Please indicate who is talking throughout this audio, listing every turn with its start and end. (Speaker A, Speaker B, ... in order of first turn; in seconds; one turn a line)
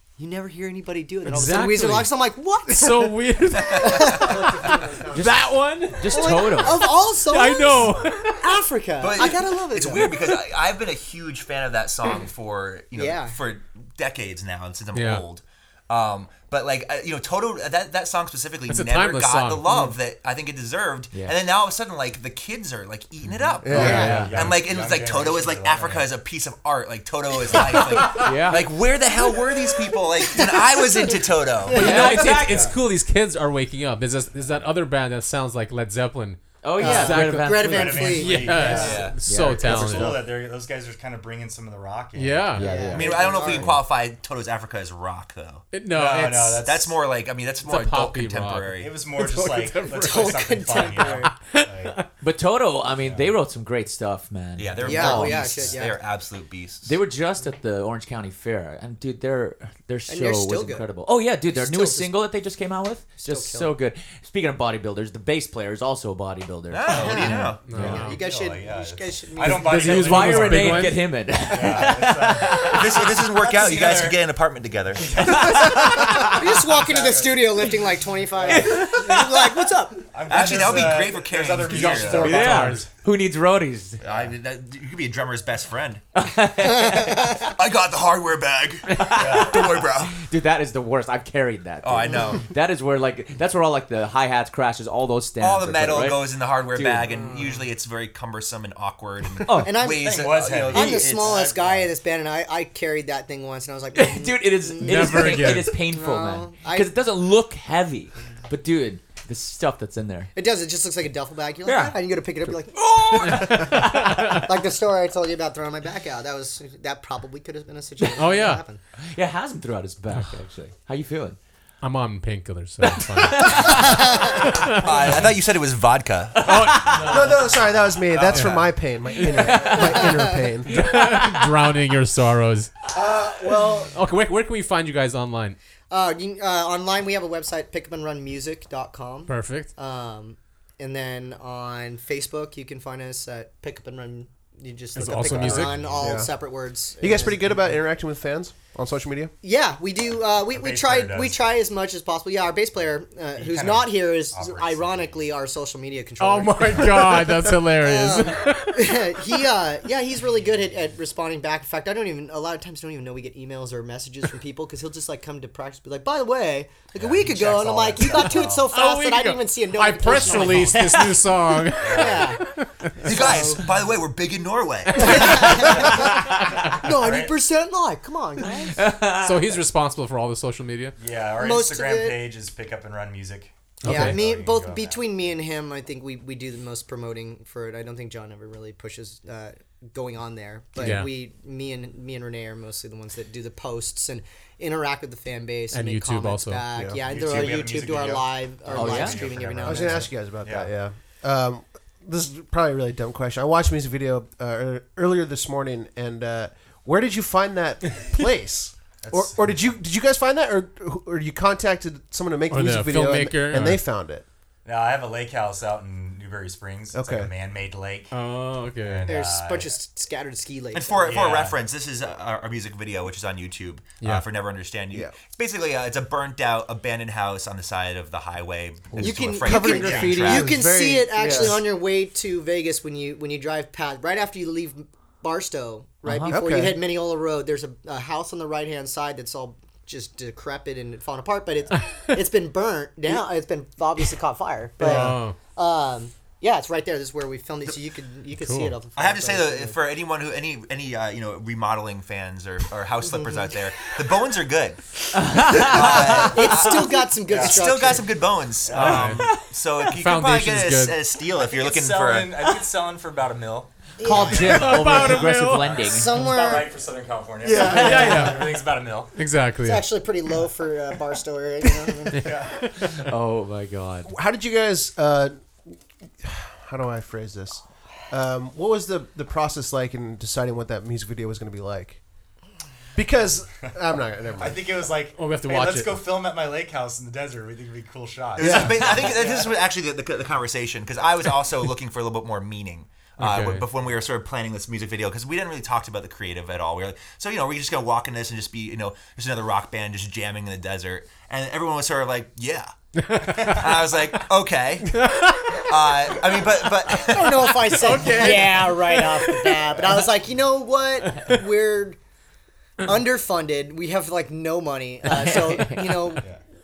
Speaker A: 0.2-4.8
Speaker B: 1.2-8.4
Speaker C: 3.6-4.5
Speaker D: 4.5-5.0
Speaker E: 5.1-6.8
Speaker A: 6.1-10.1
Speaker C: 9.0-32.4
Speaker A: 12.9-13.4
Speaker B: 14.9-15.2
Speaker B: 18.7-19.8
Speaker E: 23.2-24.5
Speaker D: 23.6-24.1
Speaker B: 23.7-24.4
Speaker A: 23.7-24.1
Speaker F: 23.7-26.1
Speaker E: 28.0-28.7
Speaker E: 31.7-32.8
Speaker B: 31.7-40.3
Speaker F: 32.4-32.7
Speaker E: 36.6-40.2
Speaker A: 36.8-39.0
Speaker F: 37.6-42.8
Speaker C: 38.7-39.2
Speaker B: 42.1-43.0
Speaker E: 42.5-43.8
Speaker A: 42.6-43.7
Speaker C: 42.8-45.7
Speaker B: 45.7-46.7
Speaker F: 45.9-47.0
Speaker C: 46.6-49.0
Speaker B: 47.6-52.1
Speaker F: 48.7-52.0
Speaker A: 50.0-51.3
Speaker E: 52.2-55.7
Speaker F: 52.9-53.3
Speaker C: 54.6-57.0
Speaker A: 54.8-56.0
Speaker F: 54.8-55.8
Speaker E: 56.8-68.1
Speaker A: 60.1-60.9
Speaker A: 61.5-62.1
Speaker A: 63.2-63.7
Speaker C: 66.7-68.0
Speaker A: 66.9-70.0
Speaker B: 67.7-68.2
Speaker F: 67.8-74.2
Speaker B: 69.4-71.1
Speaker E: 69.7-73.2
Speaker C: 72.5-75.6
Speaker F: 75.0-77.8
Speaker E: 75.2-76.3
Speaker A: 75.8-80.0
Speaker F: 78.4-79.0
Speaker E: 78.5-79.3
Speaker F: 80.1-82.9
Speaker C: 80.3-82.4
Speaker B: 81.6-82.9
Speaker E: 82.2-84.0
Speaker C: 84.0-86.0
Speaker E: 86.2-87.5
Speaker A: 86.6-87.5
Speaker C: 86.7-90.2
Speaker E: 88.9-97.1
Speaker F: 89.1-89.7
Speaker C: 91.8-92.5
Speaker A: 92.0-92.4
Speaker C: 95.4-101.6
Speaker A: 97.0-97.7
Speaker E: 99.4-99.8
Speaker A: 99.5-106.9
Speaker F: 100.0-101.9
Speaker E: 103.9-110.3
Speaker B: 104.8-105.8
Speaker A: 110.3-118.8
Speaker E: 111.6-114.4
Speaker B: 113.2-114.4
Speaker B: 118.2-118.6
Speaker E: 119.0-121.4
Speaker B: 121.8-125.3
Speaker E: 122.8-124.4
Speaker C: 123.8-127.2
Speaker A: 123.9-124.3
Speaker B: 126.4-127.4
Speaker E: 126.4-127.1
Speaker D: 127.0-130.8
Speaker B: 128.3-130.1
Speaker E: 129.3-130.1
Speaker A: 129.7-130.3
Speaker B: 130.7-132.7
Speaker E: 130.7-131.6
Speaker D: 132.9-133.9
Speaker B: 133.7-135.6
Speaker A: 135.9-147.5
Speaker B: 139.3-139.7
Speaker B: 144.9-145.8
Speaker F: 145.3-146.2
Speaker D: 146.0-146.3
Speaker D: 147.0-149.3
Speaker A: 149.4-171.2
Speaker F: 150.5-151.4
Speaker F: 153.3-155.3
Speaker B: 156.2-159.4
Speaker F: 166.9-168.7
Speaker B: 168.6-173.5
Speaker F: 171.8-172.3
Speaker A: 171.9-172.4
Speaker A: 173.0-173.6
Speaker C: 173.0-175.8
Speaker A: 174.9-178.8
Speaker F: 175.5-177.3
Speaker E: 178.5-179.6
Speaker B: 179.1-181.0
Speaker F: 181.0-185.2
Speaker A: 181.4-182.2
Speaker B: 183.8-184.2
Speaker A: 183.8-200.1
Speaker B: 190.8-191.1
Speaker B: 195.7-196.7
Speaker D: 196.7-197.0
Speaker F: 196.9-200.7
Speaker E: 198.7-199.2
Speaker D: 199.6-214.2
Speaker F: 209.0-209.7
Speaker B: 212.5-213.8
Speaker F: 214.6-219.7
Speaker D: 216.9-217.3
Speaker B: 218.1-219.1
Speaker A: 219.1-221.2
Speaker C: 220.7-230.6
Speaker F: 221.0-221.6
Speaker A: 229.0-249.8
Speaker D: 229.2-231.6
Speaker E: 236.0-236.3
Speaker D: 236.3-236.8
Speaker B: 244.8-245.4
Speaker D: 244.8-245.2
Speaker B: 248.3-248.7
Speaker C: 248.9-262.5
Speaker A: 253.0-253.5
Speaker E: 255.1-256.7
Speaker A: 255.7-258.1
Speaker F: 255.8-256.3
Speaker F: 257.3-257.7
Speaker F: 258.7-259.3
Speaker B: 258.7-261.0
Speaker F: 261.4-265.1
Speaker A: 264.0-264.8
Speaker E: 264.0-266.2
Speaker B: 264.3-265.8
Speaker F: 265.6-269.1
Speaker A: 265.8-266.7
Speaker D: 267.4-268.2
Speaker A: 267.5-268.0
Speaker B: 267.6-269.9
Speaker A: 269.6-272.3
Speaker F: 272.1-272.7
Speaker B: 272.1-273.1
Speaker E: 273.0-274.1
Speaker D: 274.1-282.0
Speaker D: 282.9-284.6
Speaker F: 284.4-289.5
Speaker B: 285.1-286.1
Speaker C: 288.4-308.2
Speaker D: 288.4-289.0
Speaker B: 293.2-293.6
Speaker B: 303.0-303.9
Speaker B: 304.9-305.7
Speaker A: 306.9-312.0
Speaker B: 307.6-309.7
Speaker B: 311.2-311.4
Speaker A: 312.8-316.3
Speaker E: 315.1-316.0